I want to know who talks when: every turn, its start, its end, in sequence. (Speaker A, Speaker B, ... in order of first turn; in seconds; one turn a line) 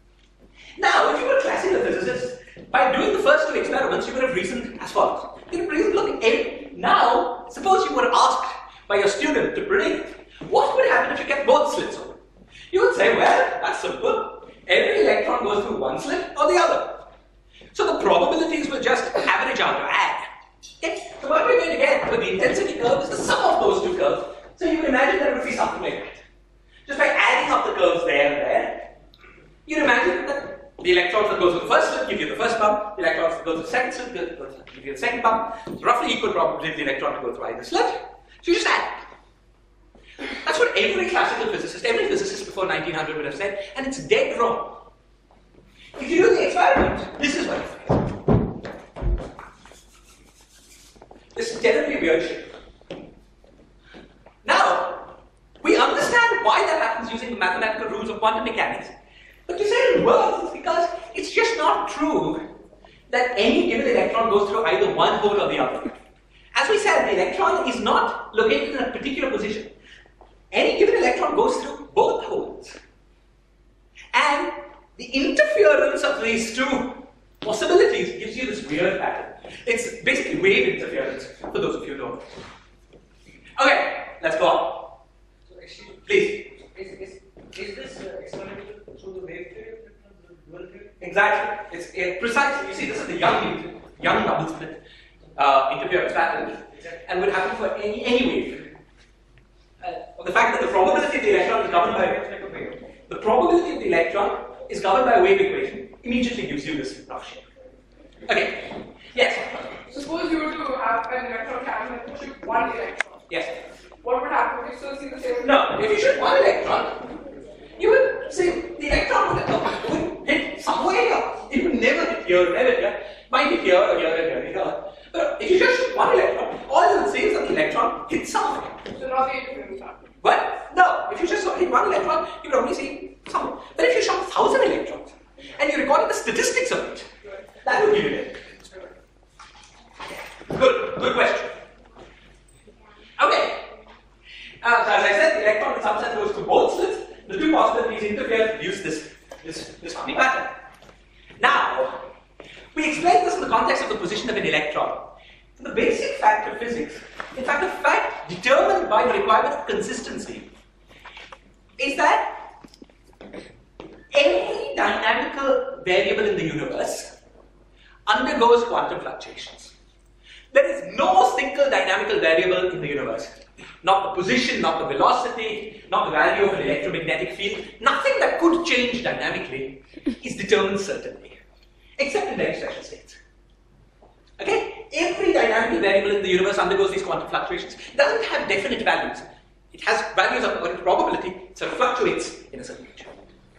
Speaker A: 0.8-12.2
Speaker A: 12.7-17.1
Speaker A: 17.7-20.3
Speaker A: 20.8-26.2
Speaker A: 26.9-28.9
Speaker A: 29.6-39.0
Speaker A: 40.4-44.8
Speaker A: 46.0-48.2
Speaker A: 51.3-52.5
Speaker A: 54.4-58.9
Speaker A: 59.5-62.5
Speaker A: 63.1-65.9
Speaker A: 66.5-69.7
Speaker A: 70.5-72.8
Speaker A: 74.1-82.2
Speaker A: 83.6-85.0
Speaker B: 85.5-86.1
Speaker A: 86.0-86.5
Speaker B: 86.6-91.0
Speaker A: 91.0-94.8
Speaker A: 95.3-98.8
Speaker A: 99.8-102.2
Speaker B: 101.1-102.8
Speaker A: 103.1-107.5
Speaker A: 108.2-109.8
Speaker C: 109.9-113.3
Speaker A: 113.3-113.6
Speaker C: 114.0-115.7
Speaker A: 115.4-117.1
Speaker A: 117.8-128.8
Speaker C: 128.9-130.0
Speaker A: 130.2-137.1
Speaker A: 137.6-138.5
Speaker A: 140.5-141.6
Speaker A: 143.2-143.7
Speaker A: 144.6-150.6
Speaker A: 151.4-152.0
Speaker A: 152.7-160.5
Speaker A: 161.8-162.4
Speaker A: 164.1-167.1
Speaker A: 168.1-169.7
Speaker A: 170.5-181.4
Speaker A: 182.0-183.2
Speaker A: 184.4-193.2